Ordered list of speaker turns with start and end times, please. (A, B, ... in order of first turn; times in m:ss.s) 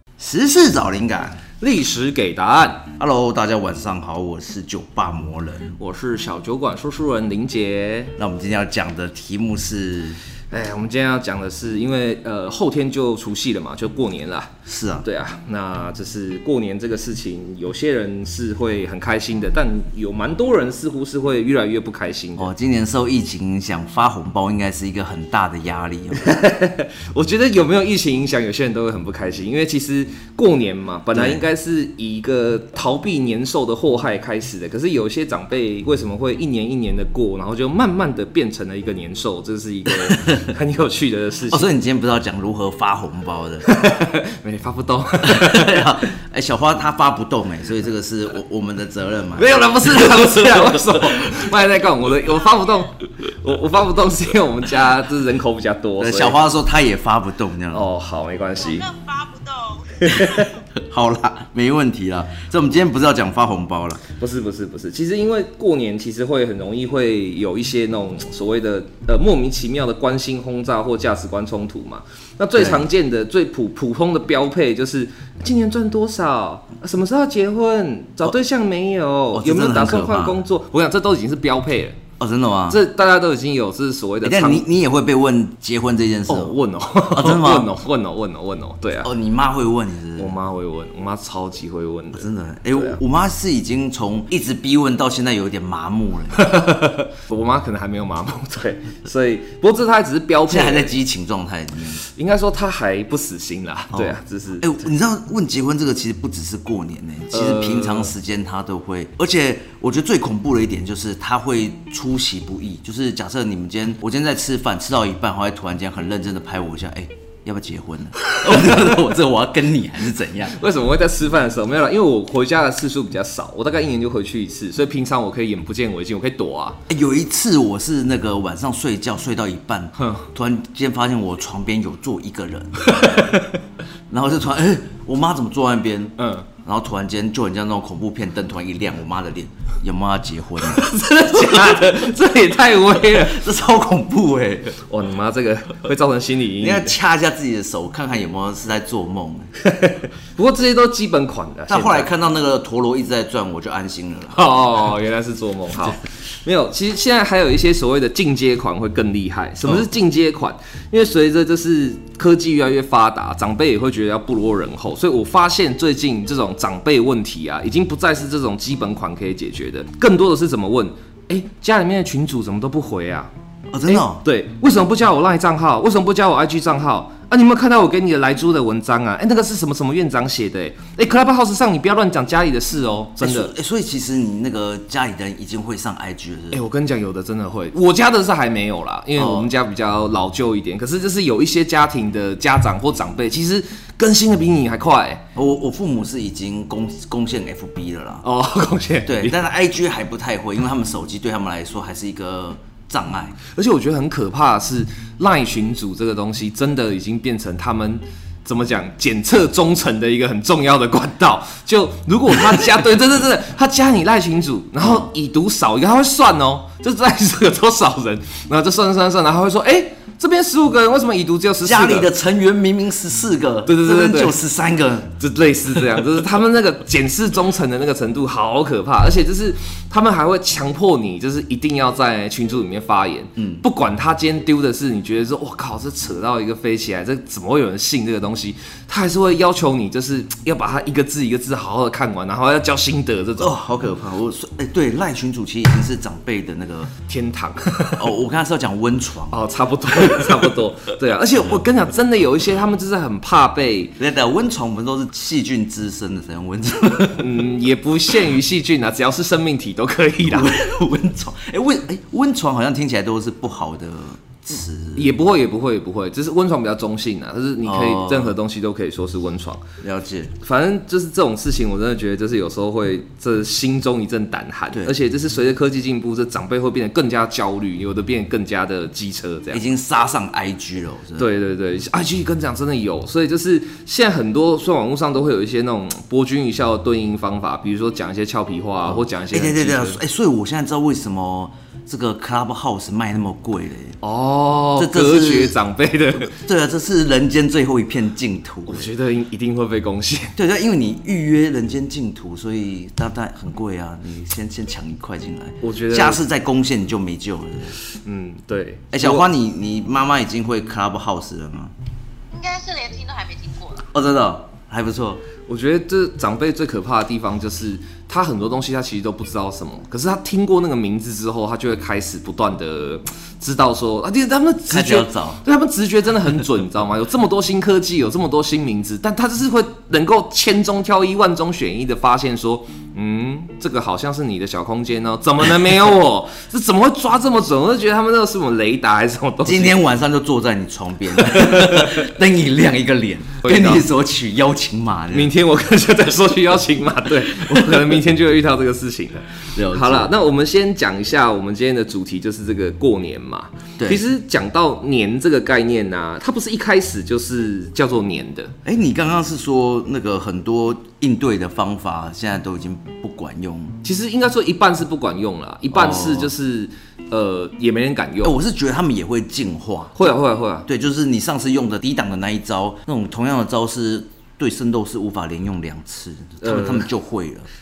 0:00.2-0:01.4 A
0:01.6-0:02.9 B
0:03.0-0:05.8 A
0:05.8-0:08.1 B
0:08.2-0:10.2 A
0:10.5-0:22.5 B
0:14.6-0:15.0 A
0:22.4-0:26.3 A
0:26.2-0:41.7 B
0:31.1-0:31.4 A
0:40.0-0:40.4 A
0:41.5-0:43.7 A
0:43.6-0:46.0 B
0:45.2-0:51.3 A
0:49.4-0:56.4 B
0:56.0-0:57.9 A
0:57.7-0:58.9 B
0:58.6-1:00.0 C
1:00.0-1:00.5 B
1:00.1-1:04.0 A
1:04.2-1:22.0 B
1:12.6-1:12.8 A
1:19.3-1:20.4 A
1:22.2-1:22.8 A
1:22.7-1:24.6 B
1:24.2-1:26.6 A
1:26.3-1:29.1 B
1:27.1-1:27.7 A
1:29.0-1:30.3 A
1:30.2-1:33.0 B
1:32.1-1:36.7 A
1:36.3-1:40.9 B
1:40.5-1:42.0 A
1:42.1-1:44.8 B
1:43.9-2:00.6 A
1:47.3-1:48.1 B
1:58.3-1:58.8 B
2:00.5-2:06.8 B
2:06.9-2:13.4 A
2:10.0-2:10.3 B
2:12.8-2:13.6 B
2:14.1-2:21.9 A
2:16.2-2:16.4 B
2:20.6-2:23.4 B
2:23.1-2:24.8 A
2:24.8-2:26.9 B
2:26.6-2:29.5 A
2:29.6-2:32.1 B
2:31.7-2:34.5 A
2:34.3-2:53.3 B
2:53.7-2:54.2 A
2:53.8-3:03.5 B
3:03.2-3:06.6 A
3:06.5-3:15.2 B
3:09.2-3:09.5 A
3:15.3-3:18.2 A
3:18.2-3:19.4 B
3:19.0-3:23.4 A
3:23.5-3:42.1 B
3:34.8-3:35.1 A
3:41.6-3:45.2 A
3:43.6-3:44.4 B
3:45.2-4:03.5 B
3:53.4-3:53.6 A
4:03.4-4:06.9 A
4:07.1-4:08.1 B
4:08.0-4:09.4 A
4:09.3-4:14.0 B
4:10.0-4:10.3 A
4:14.0-4:17.4 A
4:17.2-4:20.6 B
4:20.2-4:25.1 A
4:25.0-4:29.6 B
4:27.6-4:28.4 A
4:29.8-4:30.3 A
4:30.4-4:39.6 B
4:39.5-4:41.3 A
4:41.2-4:50.0 B
4:48.8-4:54.0 A
4:54.0-4:56.3 B
4:54.8-4:55.6 A
4:56.2-4:58.9 A
4:58.6-5:00.3 B
5:00.4-5:07.8 A
5:05.6-5:06.2 B
5:08.0-5:09.3 B
5:08.9-5:11.7 A
5:12.3-5:13.9 C
5:13.9-5:15.2 A
5:15.5-5:39.8 B
5:24.7-5:25.4 A
5:39.4-5:45.3 A
5:41.2-5:42.0 B
5:43.4-5:43.9 B
5:45.1-5:58.5 B
5:49.5-5:50.1 A
5:58.6-6:03.8 A
6:03.8-6:08.4 B
6:05.7-6:06.3 A
6:08.2-6:10.1 A
6:10.0-6:10.7 B
6:10.6-6:17.5 A
6:16.4-6:16.9 B